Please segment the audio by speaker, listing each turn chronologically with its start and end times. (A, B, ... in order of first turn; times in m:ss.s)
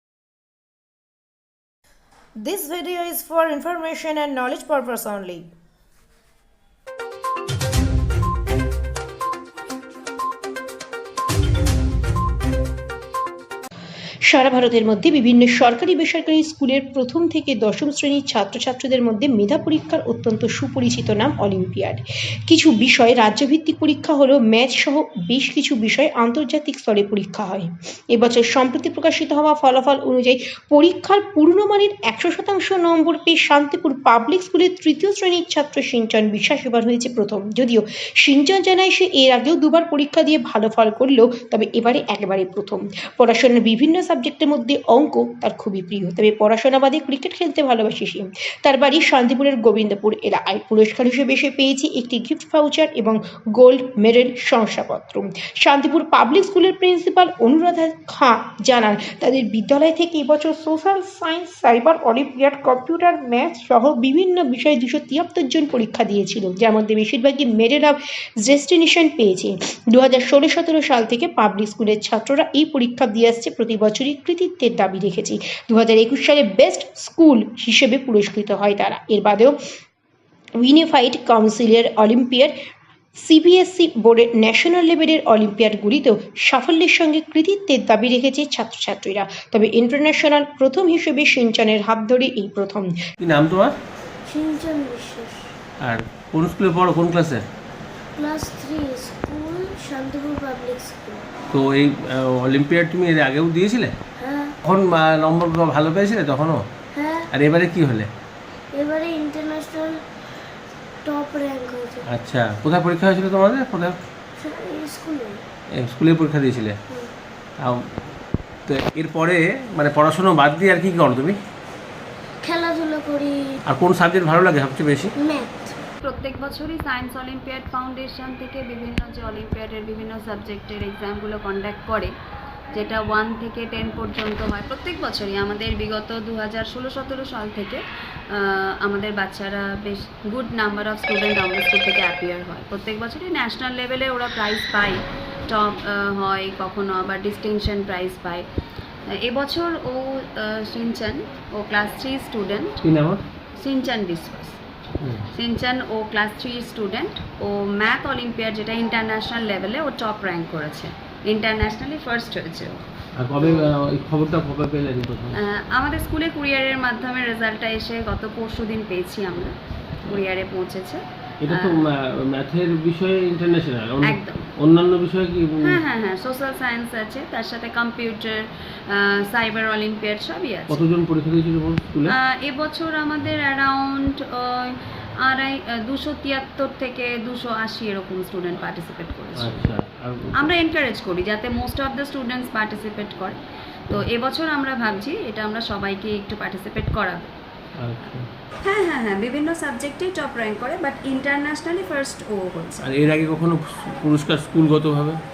0:02.5-0:05.4 A
0:14.3-1:19.6 B
1:20.6-1:22.6 B
1:23.2-1:32.9 B
1:33.2-1:33.7 C
1:34.2-1:35.5 D
1:35.8-1:37.4 C
1:38.1-1:41.3 D
1:41.5-1:43.9 C
1:44.2-1:44.6 D
1:44.6-1:46.6 C
1:46.9-1:47.3 D
1:47.3-1:48.1 C
1:48.7-1:50.5 D
1:51.0-1:52.0 D
1:52.1-1:54.0 C
1:54.4-1:55.5 D
1:55.8-1:56.8 C
1:57.6-1:57.9 C
1:58.7-2:01.4 C
2:02.4-2:03.6 D
2:03.7-2:05.2 C
2:05.2-2:05.8 D
2:06.0-2:12.1 E
2:12.7-2:28.5 E
2:29.1-2:32.8 E
2:32.8-2:33.2 C
2:33.6-2:34.6 E
2:35.0-2:35.2 C
2:35.3-2:42.8 E
2:43.2-2:45.4 C
2:45.3-2:49.6 E
2:50.1-2:51.9 E
2:51.4-2:55.8 C
2:54.0-2:54.5 E
2:55.6-3:00.8 E
3:00.7-3:02.2 C
3:02.1-3:09.6 E
3:09.4-3:10.5 C
3:10.4-3:17.3 E
3:17.8-3:18.3 C
3:18.6-3:22.9 E
3:22.8-3:25.2 C